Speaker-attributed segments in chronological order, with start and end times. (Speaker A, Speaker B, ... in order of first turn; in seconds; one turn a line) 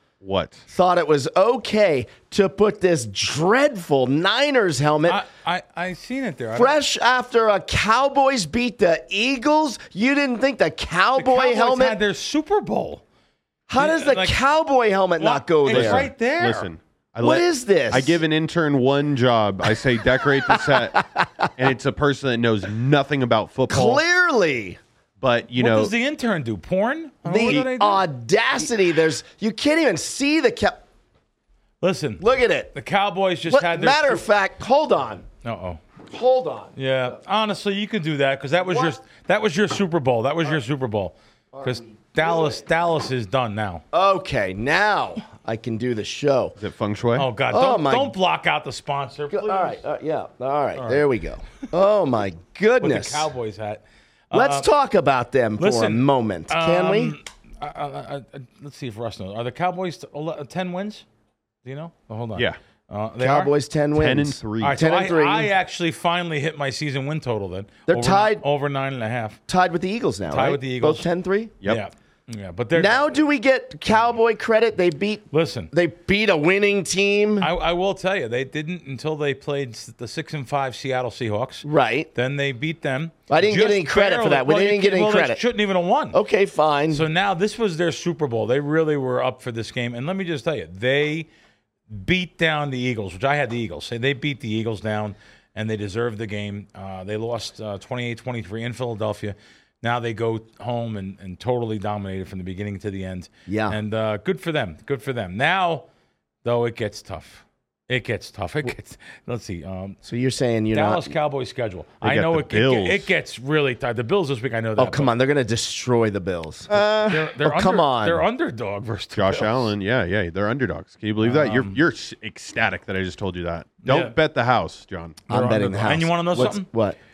Speaker A: 0.2-0.7
Speaker B: 0.7-5.2
Speaker C: 5.0-6.7
Speaker B: 6.5-12.0
Speaker C: 11.2-13.0
Speaker B: 13.7-16.1
Speaker C: 13.7-14.4
Speaker C: 15.2-16.7
Speaker A: 15.7-24.0
Speaker B: 17.2-18.2
Speaker B: 20.4-21.5
Speaker B: 23.7-24.8
Speaker A: 25.2-25.9
Speaker C: 25.6-28.1
Speaker B: 27.2-30.8
Speaker C: 31.8-34.3
Speaker B: 32.2-32.7
Speaker B: 33.5-35.2
Speaker C: 35.4-35.8
Speaker B: 36.1-36.7
Speaker C: 36.7-43.8
Speaker B: 38.6-39.0
Speaker B: 41.5-42.6
Speaker B: 43.9-46.5
Speaker A: 46.6-47.3
Speaker C: 47.2-49.8
Speaker B: 47.5-48.1
Speaker B: 49.3-53.3
Speaker C: 50.8-51.0
Speaker C: 52.8-54.7
Speaker B: 54.3-57.1
Speaker C: 55.6-61.0
Speaker C: 61.6-63.5
Speaker B: 63.2-65.5
Speaker A: 63.9-64.8
Speaker C: 64.6-69.4
Speaker B: 67.9-68.4
Speaker B: 69.5-71.5
Speaker C: 70.3-71.1
Speaker C: 71.6-73.0
Speaker B: 72.7-77.5
Speaker C: 75.3-75.7
Speaker C: 77.4-86.2
Speaker B: 81.6-82.1
Speaker B: 83.3-85.4
Speaker B: 86.1-87.0
Speaker C: 86.9-91.3
Speaker C: 91.9-105.8
Speaker B: 103.5-103.8
Speaker C: 106.4-110.0
Speaker B: 110.0-111.1
Speaker C: 110.7-115.1
Speaker A: 112.0-113.1
Speaker B: 114.8-118.2
Speaker A: 116.7-117.2
Speaker C: 117.1-119.7
Speaker A: 119.1-125.2
Speaker C: 121.2-121.8
Speaker C: 123.8-124.1
Speaker C: 125.3-126.7
Speaker B: 125.3-127.0